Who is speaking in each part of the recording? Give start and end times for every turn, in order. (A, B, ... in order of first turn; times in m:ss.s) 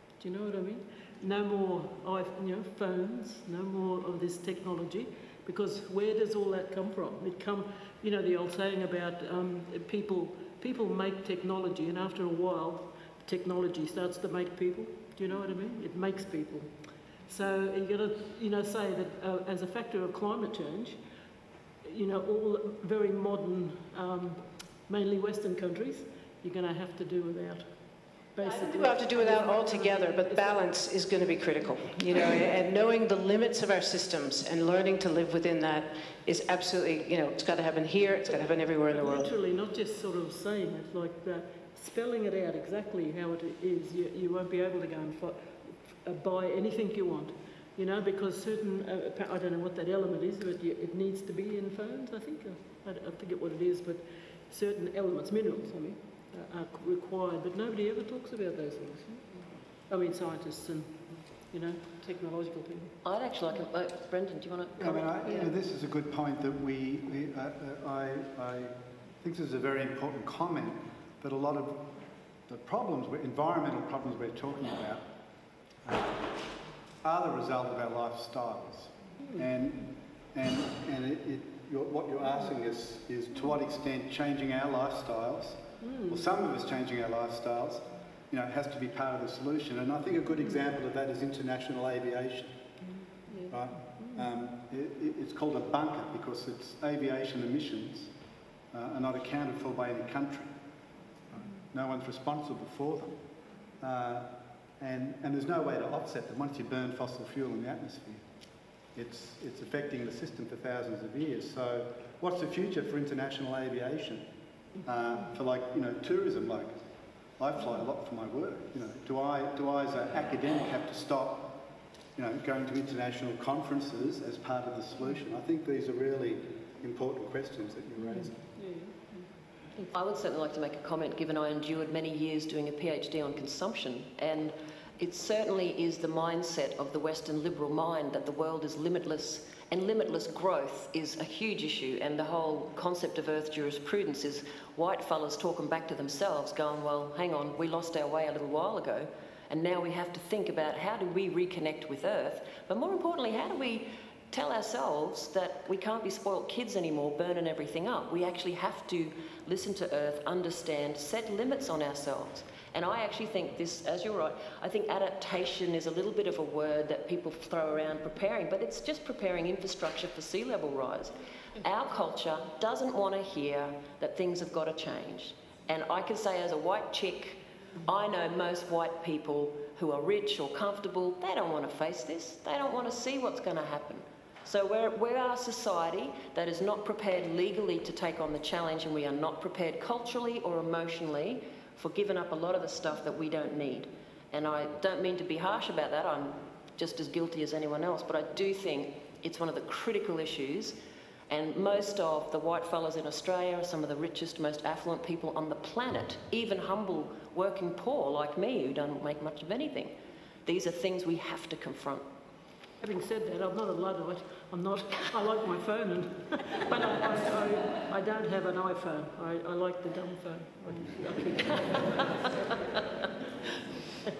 0:00.2-0:16.7 A
0:17.3-0:21.0 A
0:21.8-0:27.6 A
0:28.3-0:30.7 A
0:28.4-0:39.3 B
0:38.9-1:03.0 A
1:03.0-1:05.4 C
1:04.8-1:11.9 D
1:12.5-1:15.0 D
1:15.8-1:16.3 D
1:17.0-1:32.5 D
1:25.8-1:26.2 A
1:33.3-1:34.2 A
1:33.5-1:38.1 D
1:38.7-1:40.5 D
1:41.3-1:43.2 D
1:43.8-1:48.2 D
1:48.9-1:54.2 D
1:54.8-1:56.8 D
1:57.4-2:01.6 D
2:02.2-2:08.4 D
2:08.0-2:09.9 A
2:09.9-3:20.8 C
3:21.3-3:29.9 C
3:30.4-3:32.0 C
3:32.8-3:42.3 A